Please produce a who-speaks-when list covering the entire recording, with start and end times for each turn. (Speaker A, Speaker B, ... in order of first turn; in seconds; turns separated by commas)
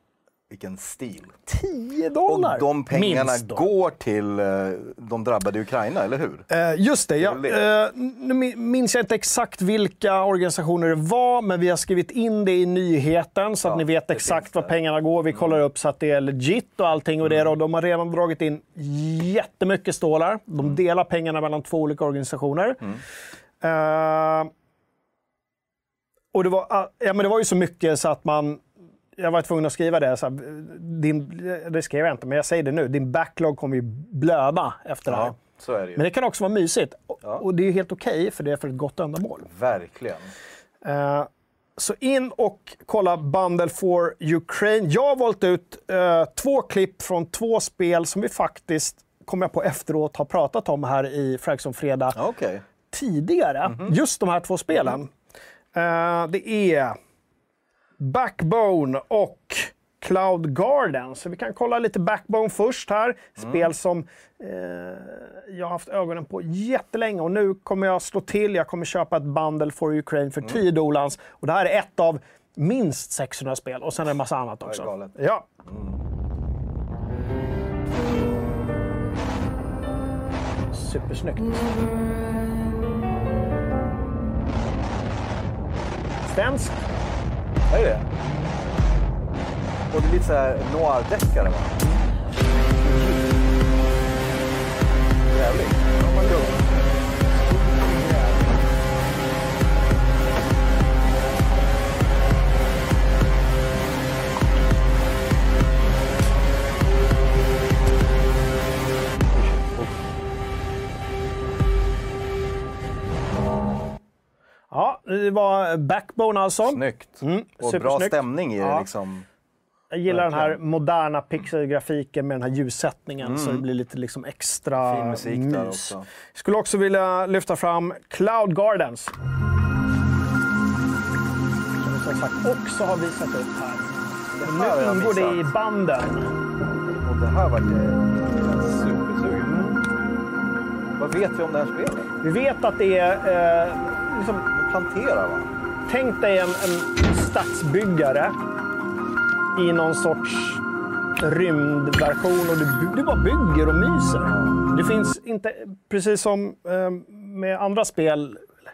Speaker A: 0.5-1.4, Speaker B: 1.5-3.7, Speaker A: 2.3-6.5, Speaker B: 6.5-22.8, Speaker A: 7.2-7.6, Speaker A: 13.6-14.7, Speaker B: 23.6-24.5, Speaker B: 26.3-28.6, Speaker B: 29.2-35.4, Speaker A: 35.1-36.0, Speaker B: 36.0-39.5, Speaker A: 39.5-40.3, Speaker B: 40.8-52.2, Speaker A: 52.1-52.6, Speaker B: 52.9-55.1, Speaker A: 53.6-54.0, Speaker B: 55.7-57.0, Speaker B: 58.0-75.5, Speaker A: 74.6-75.1, Speaker A: 75.6-76.0, Speaker B: 80.7-81.8, Speaker B: 86.2-86.8, Speaker A: 87.7-88.1, Speaker A: 89.9-91.8, Speaker B: 92.8-93.2, Speaker A: 95.3-96.5, Speaker B: 96.0-96.5, Speaker B: 97.3-98.5, Speaker A: 109.4-109.9, Speaker B: 114.7-118.8, Speaker A: 116.6-119.2, Speaker B: 119.9-129.1, Speaker A: 120.1-120.6, Speaker A: 123.2-123.6, Speaker A: 124.8-126.0, Speaker B: 131.8-136.3, Speaker A: 134.3-135.5, Speaker A: 137.0-139.8, Speaker B: 139.4-139.8, Speaker A: 140.9-142.1, Speaker B: 142.2-144.5, Speaker A: 144.5-145.5, Speaker B: 145.9-148.4, Speaker B: 149.5-150.6, Speaker B: 151.2-158.5